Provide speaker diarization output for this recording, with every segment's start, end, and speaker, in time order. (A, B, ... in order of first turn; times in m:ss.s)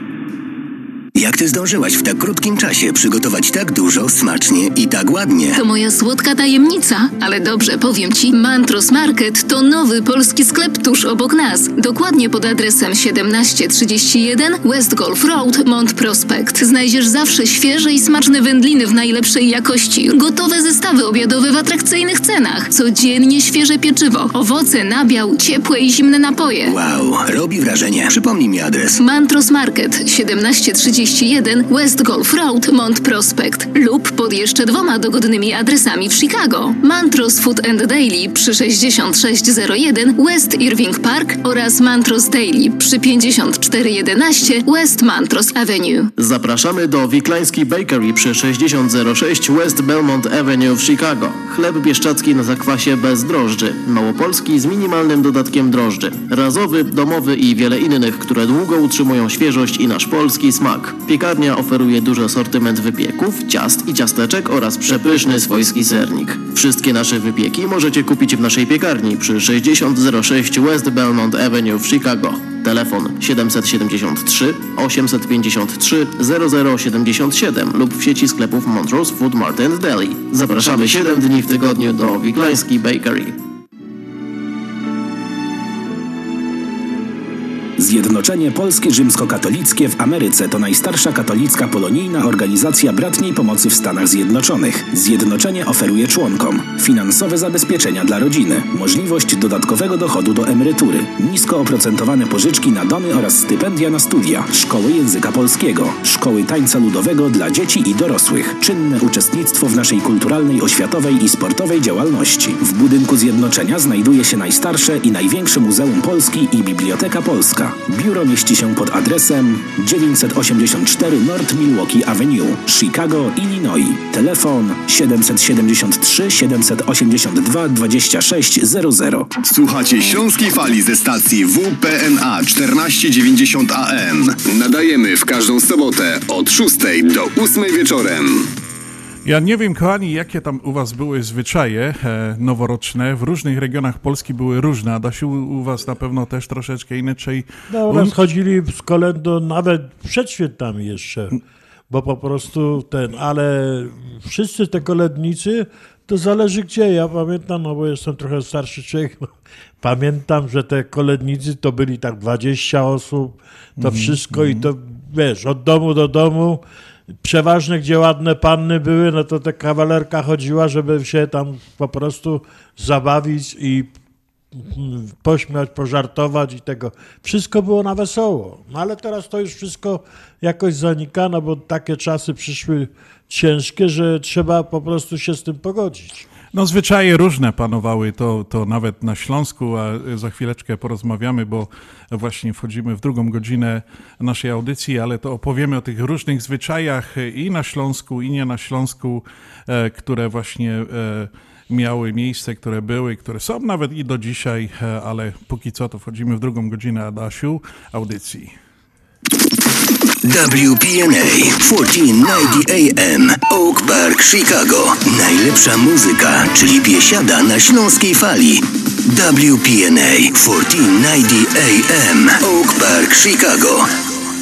0:01.1-0:05.6 A
0:05.5-0:26.7 B
0:26.7-0:28.9 A
0:29.0-0:46.1 B
0:46.2-1:23.3 C
1:27.8-2:09.3 D
2:09.4-2:18.5 E
2:19.2-2:28.2 F
2:27.7-2:39.3 G
2:39.8-2:46.6 G
2:43.8-2:44.7 F
2:47.2-2:53.9 G
2:54.5-3:06.3 G
3:06.5-3:28.5 F
3:30.2-3:43.9 A